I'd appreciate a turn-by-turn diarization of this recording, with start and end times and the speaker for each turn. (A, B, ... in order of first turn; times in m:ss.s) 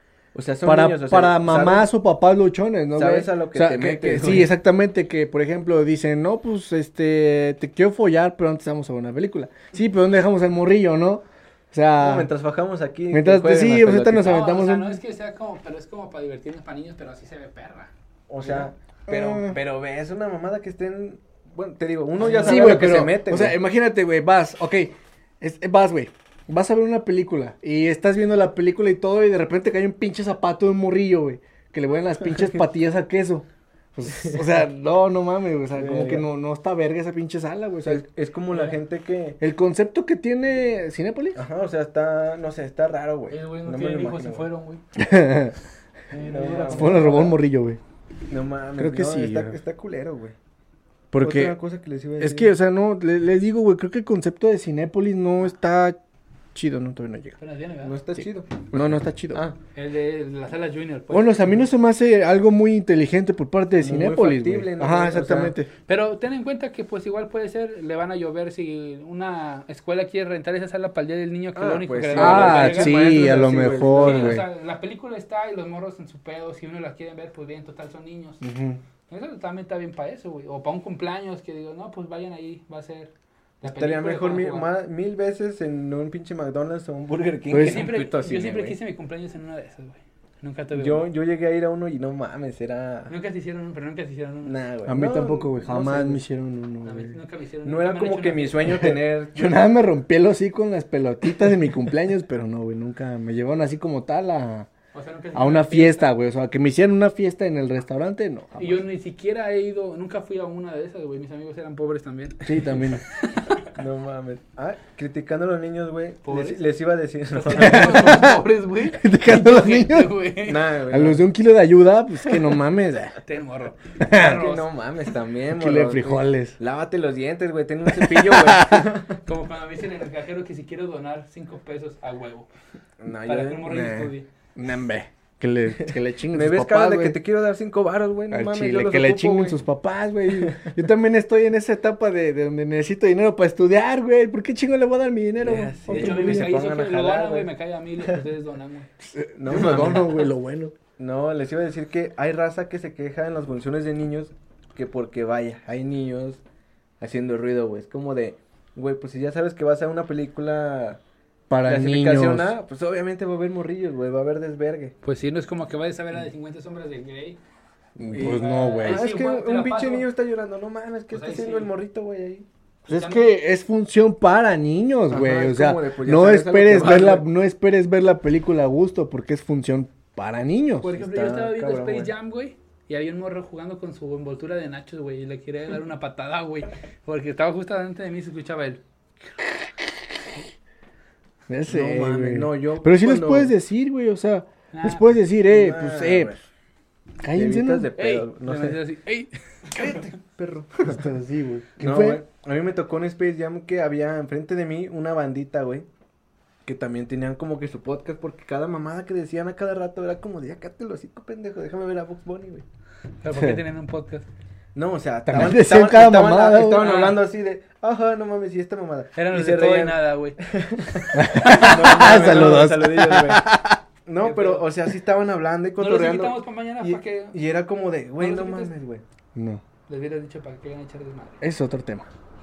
0:00.3-0:01.9 A
0:00.6-0:12.3 B
0:03.0-0:04.5 A
0:12.0-0:14.4 A
0:13.1-0:15.0 B
0:14.2-0:17.9 C
0:18.3-0:23.6 A
0:19.1-0:19.6 B
0:22.2-0:22.7 C
0:22.3-0:38.0 B
0:34.1-0:34.4 A
0:35.8-0:36.3 A
0:37.8-0:39.4 A
0:39.4-0:41.4 B
0:41.4-0:44.5 A
0:43.3-0:44.8 C
0:45.0-0:45.6 B
0:46.1-0:47.4 C
0:46.2-0:47.4 A
0:46.7-0:47.8 B
0:48.3-0:50.4 A
0:48.8-0:49.6 B
0:51.1-0:51.6 B
0:51.2-0:52.5 A
0:52.2-0:56.0 B
0:56.5-0:57.4 B
0:57.4-0:58.0 C
0:57.8-0:59.6 A
0:58.2-0:59.4 B
0:59.8-1:01.6 C
1:01.1-1:05.7 B
1:03.8-1:05.6 A
1:05.9-1:13.0 C
1:11.6-1:14.5 A
1:12.1-1:14.5 B
1:14.0-1:18.4 C
1:18.4-1:18.8 B
1:19.1-1:24.7 C
1:23.6-1:28.8 A
1:27.5-1:27.9 B
1:27.6-1:31.1 C
1:30.7-1:33.1 A
1:33.1-1:34.6 C
1:34.4-1:36.2 A
1:34.9-1:37.2 B
1:36.8-1:38.6 C
1:37.6-1:39.6 A
1:38.7-1:44.7 B
1:44.9-1:46.1 C
1:45.3-1:48.8 B
1:48.6-1:53.7 C
1:52.4-1:53.0 B
1:53.8-1:58.2 A
1:56.2-1:56.6 C
1:57.3-2:00.7 C
1:57.5-1:58.4 B
1:58.9-2:00.2 B
2:00.4-2:01.2 A
2:00.9-2:03.2 B
2:03.2-2:04.7 C
2:04.0-2:04.4 B
2:04.1-2:09.2 A
2:05.5-2:06.6 B
2:07.9-2:08.9 B
2:09.3-2:12.5 C
2:13.0-2:13.9 A
2:13.2-2:14.3 C
2:13.7-2:17.2 B
2:16.3-2:19.6 A
2:18.3-2:26.5 B
2:20.4-2:20.7 A
2:25.4-2:27.5 A
2:25.9-2:28.9 C
2:29.0-2:30.7 B
2:29.4-2:30.3 A
2:31.0-2:36.4 A
2:37.0-2:41.0 A
2:41.5-2:42.5 B
2:41.6-2:45.0 A
2:45.0-2:47.4 C
2:48.0-2:49.1 B
2:48.1-2:52.5 A
2:48.2-2:50.1 C
2:51.1-2:51.7 C
2:52.9-3:00.9 B
2:52.9-2:53.3 C
2:55.1-2:57.3 A
3:00.8-3:08.8 C
3:00.9-3:02.1 A
3:11.5-3:16.3 B
3:11.7-3:13.5 A
3:14.7-3:15.1 C
3:15.5-3:16.4 A
3:17.2-3:17.9 B
3:17.3-3:18.8 A
3:18.0-3:20.0 C
3:19.7-3:21.0 A
3:20.8-3:22.2 B
3:21.8-3:25.9 A
3:26.6-3:32.6 A
3:33.2-3:34.3 C
3:33.3-3:33.6 B
3:34.8-3:43.5 A
3:35.3-3:36.9 B
3:36.8-3:37.2 C
3:39.2-3:40.4 C
3:41.0-3:42.1 C
3:41.1-3:43.8 B
3:44.1-3:49.0 A
3:44.2-3:44.7 C
3:45.8-3:47.4 C
3:48.2-3:48.7 C
3:49.4-3:49.6 B
3:49.9-3:51.4 C
3:51.4-3:52.1 B